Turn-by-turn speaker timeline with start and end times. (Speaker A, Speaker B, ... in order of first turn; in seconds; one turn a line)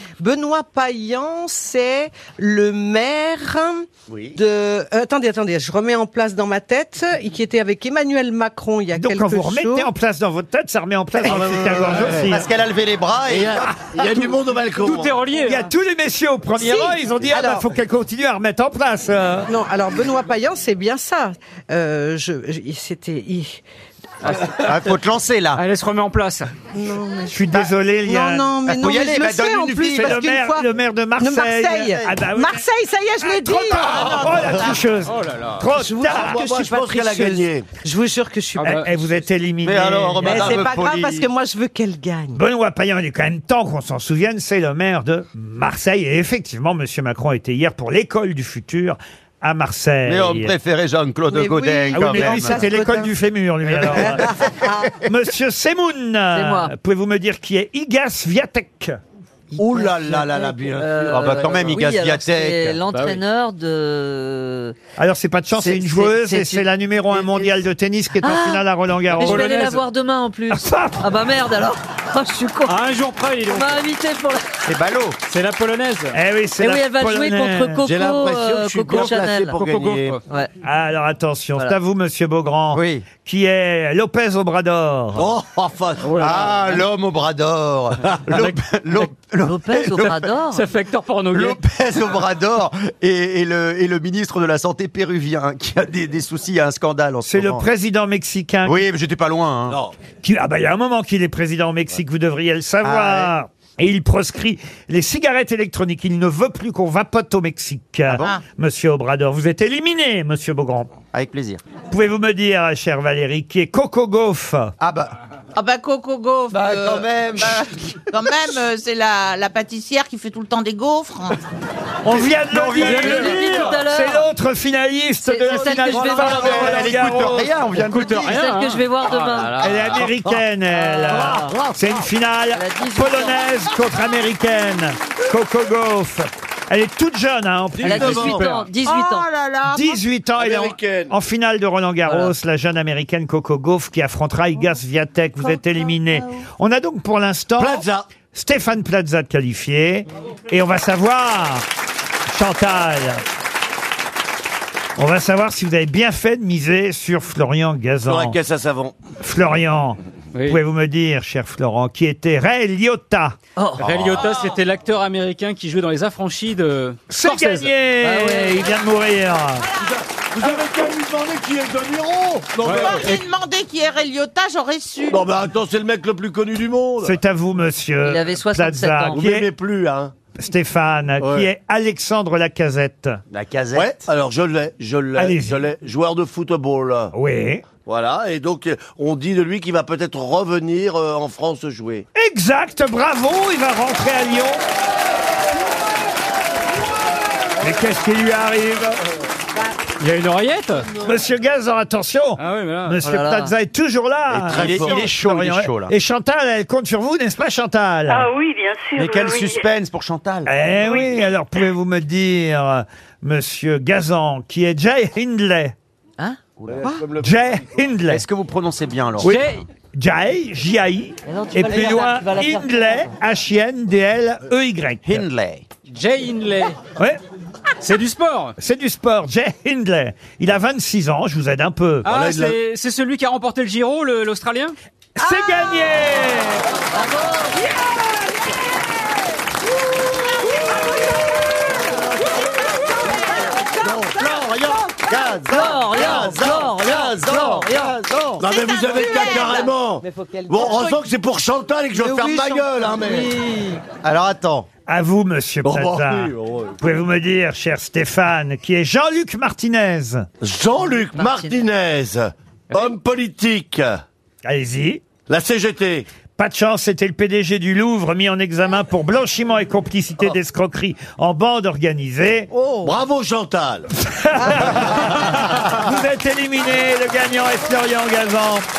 Speaker A: 0.2-9.9
Speaker B: 4.1-4.4
Speaker C: 8.9-12.4
Speaker D: 11.3-12.2
Speaker B: 12.1-13.8
Speaker D: 13.2-15.2
Speaker E: 14.8-15.7
Speaker C: 15.4-19.5
Speaker A: 16.6-17.7
Speaker A: 19.5-23.6
Speaker E: 24.2-24.9
Speaker B: 24.3-25.6
Speaker E: 25.5-26.5
Speaker A: 26.7-34.7
Speaker C: 27.3-28.5
Speaker B: 28.7-30.2
Speaker C: 29.9-32.6
Speaker C: 33.2-36.4
Speaker E: 35.0-35.7
Speaker A: 35.7-38.9
Speaker D: 36.1-37.6
Speaker E: 38.5-38.9
Speaker C: 38.8-40.8
Speaker B: 39.6-41.3
Speaker A: 40.2-42.5
Speaker C: 42.3-50.5
Speaker B: 50.0-52.7
Speaker A: 51.3-53.2
Speaker C: 51.9-54.4
Speaker A: 53.8-55.0
Speaker C: 55.0-59.0
Speaker F: 56.3-56.7
Speaker F: 59.5-64.8
Speaker D: 59.6-60.9
Speaker B: 59.6-62.8
Speaker E: 62.9-63.2
Speaker C: 65.0-69.5
Speaker F: 65.5-67.6
Speaker F: 68.2-72.8
Speaker E: 69.2-69.8
Speaker C: 70.5-71.1
Speaker E: 72.6-73.8
Speaker F: 73.5-74.4
Speaker B: 74.7-75.2
Speaker E: 75.3-76.2
Speaker C: 76.1-77.9
Speaker F: 76.6-79.6
Speaker D: 77.8-80.1
Speaker E: 79.5-80.2
Speaker C: 80.6-85.3
Speaker B: 82.7-83.0
Speaker B: 85.2-90.3
Speaker E: 86.0-86.8
Speaker E: 88.1-89.1
Speaker F: 89.4-90.6
Speaker E: 90.1-91.6
Speaker B: 91.3-97.7
Speaker C: 97.2-98.8
Speaker B: 98.6-99.8
Speaker D: 99.7-99.9
Speaker C: 100.1-110.9
Speaker B: 102.8-103.3
Speaker B: 108.1-108.4
Speaker B: 111.1-111.6
Speaker C: 111.9-114.7
Speaker B: 114.8-115.2
Speaker G: 115.5-121.4
Speaker B: 116.5-117.9
Speaker C: 122.0-127.6
Speaker B: 122.2-123.0
Speaker E: 122.7-123.8
Speaker F: 122.7-124.3
Speaker F: 125.2-126.9
Speaker B: 125.9-128.4
Speaker E: 127.7-129.8
Speaker F: 128.2-130.1
Speaker C: 129.6-138.3
Speaker F: 130.7-131.6
Speaker B: 131.2-131.8
Speaker F: 132.5-133.6
Speaker D: 137.7-138.5
Speaker F: 137.8-139.3
Speaker E: 138.3-138.7
Speaker G: 138.8-140.0
Speaker C: 139.7-151.6
Speaker D: 140.3-141.2
Speaker F: 142.0-142.3
Speaker D: 147.6-148.1
Speaker C: 152.3-153.2
Speaker C: 155.0-158.4
Speaker D: 158.0-159.0
Speaker C: 159.2-163.4
Speaker E: 160.3-160.6
Speaker F: 163.6-163.8
Speaker E: 163.8-167.7
Speaker B: 163.8-164.3
Speaker C: 167.1-169.7
Speaker F: 168.0-168.7
Speaker D: 169.8-173.2
Speaker E: 172.6-173.0
Speaker G: 172.7-175.2
Speaker D: 175.1-177.2
Speaker C: 177.0-179.5
Speaker F: 178.0-179.3
Speaker D: 179.1-180.1
Speaker C: 180.3-183.2
Speaker D: 181.2-181.5
Speaker B: 183.3-184.0
Speaker D: 183.7-187.1
Speaker C: 185.1-185.7
Speaker C: 187.1-187.7
Speaker D: 187.7-192.1
Speaker C: 192.1-194.6
Speaker C: 197.6-199.0
Speaker E: 200.0-200.9
Speaker C: 200.9-208.3
Speaker E: 202.4-203.0
Speaker F: 203.0-203.6
Speaker B: 204.3-205.9
Speaker D: 204.5-204.9
Speaker H: 208.1-209.7
Speaker B: 209.0-210.5
Speaker C: 210.5-215.7
Speaker H: 210.8-211.3
Speaker B: 216.6-216.9
Speaker D: 217.0-217.4
Speaker C: 217.2-218.2
Speaker B: 218.1-219.5
Speaker C: 219.2-225.3
Speaker E: 219.2-219.6
Speaker F: 221.2-223.1
Speaker B: 225.0-225.7
Speaker E: 225.9-226.8
Speaker E: 227.8-228.5
Speaker C: 228.6-232.2
Speaker E: 232.0-234.8
Speaker D: 232.2-232.5
Speaker C: 235.2-236.7
Speaker F: 236.9-237.4
Speaker D: 243.8-244.8
Speaker B: 244.8-248.4
Speaker F: 245.5-248.0
Speaker D: 248.4-253.4
Speaker G: 248.5-251.0
Speaker A: 252.0-253.8
Speaker B: 254.0-254.7
Speaker C: 254.8-260.3
Speaker D: 255.6-256.8
Speaker D: 260.4-264.0
Speaker F: 261.1-261.6
Speaker C: 264.4-265.1
Speaker D: 265.3-266.1
Speaker C: 266.3-272.5
Speaker A: 272.6-272.9
Speaker D: 272.8-273.9
Speaker C: 273.9-278.6
Speaker A: 274.4-275.3